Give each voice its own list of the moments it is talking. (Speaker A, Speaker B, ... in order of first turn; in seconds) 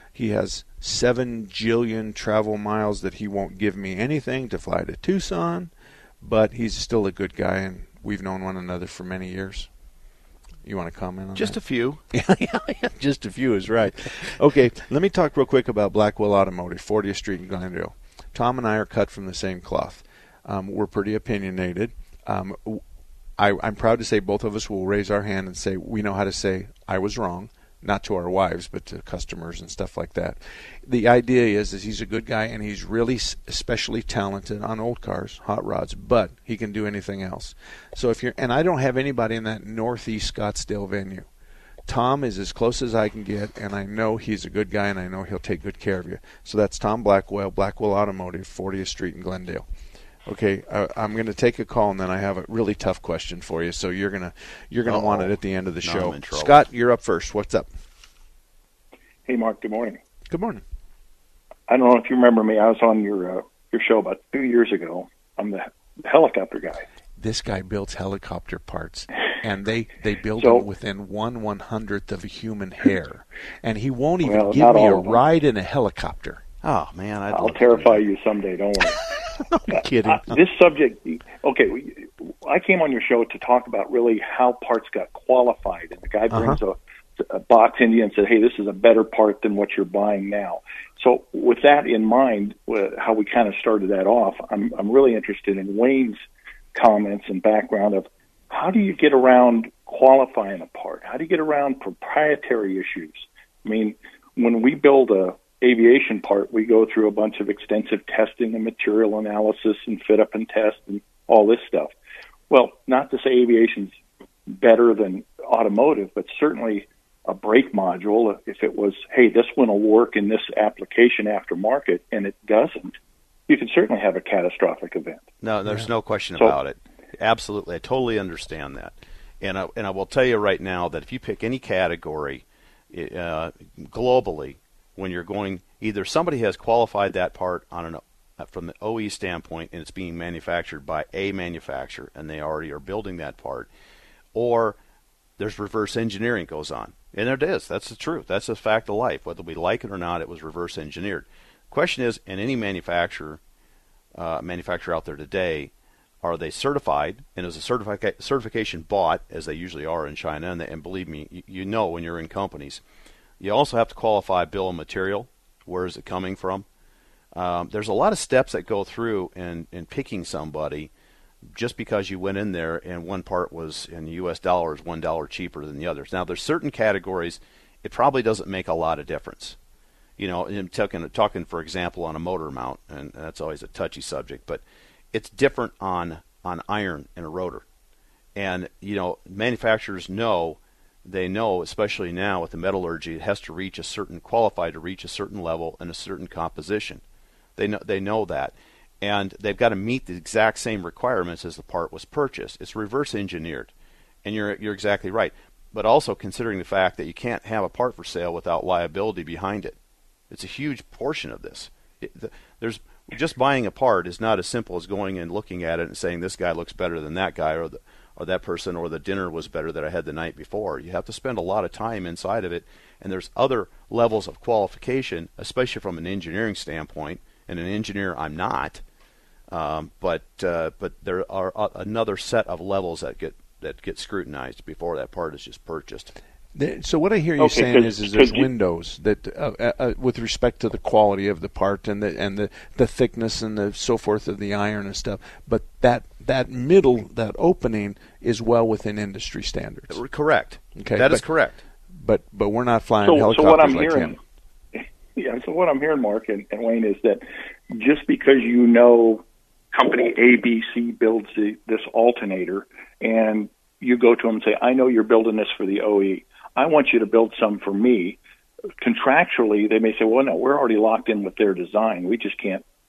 Speaker A: 0.1-9.7, 10.7-11.6, 12.1-22.8, 23.4-41.3, 41.9-49.7, 50.3-57.7, 60.3-60.6, 67.2-76.4, 79.5-80.4, 86.3-86.6, 236.6-250.0, 250.8-251.2, 251.9-254.2
Speaker B: 11.4-12.0, 54.9-56.6, 76.6-78.0, 125.4-143.7, 144.3-144.8, 145.4-153.4, 154.2-155.7, 156.2-162.8, 163.4-166.7, 167.3-170.9, 171.5-179.6, 180.2-184.6, 185.1-187.6, 188.4-197.0, 197.6-203.7, 204.2-209.8, 210.3-228.8, 229.5-236.1, 249.9-251.6
Speaker C: 59.3-60.0, 61.7-66.8, 70.4-70.7, 74.2-75.2, 77.3-79.0, 79.8-96.2, 96.8-111.9, 112.5-114.0, 114.5-123.0, 123.5-125.2, 237.4-238.5, 253.0-254.2, 254.8-268.2, 268.8-272.6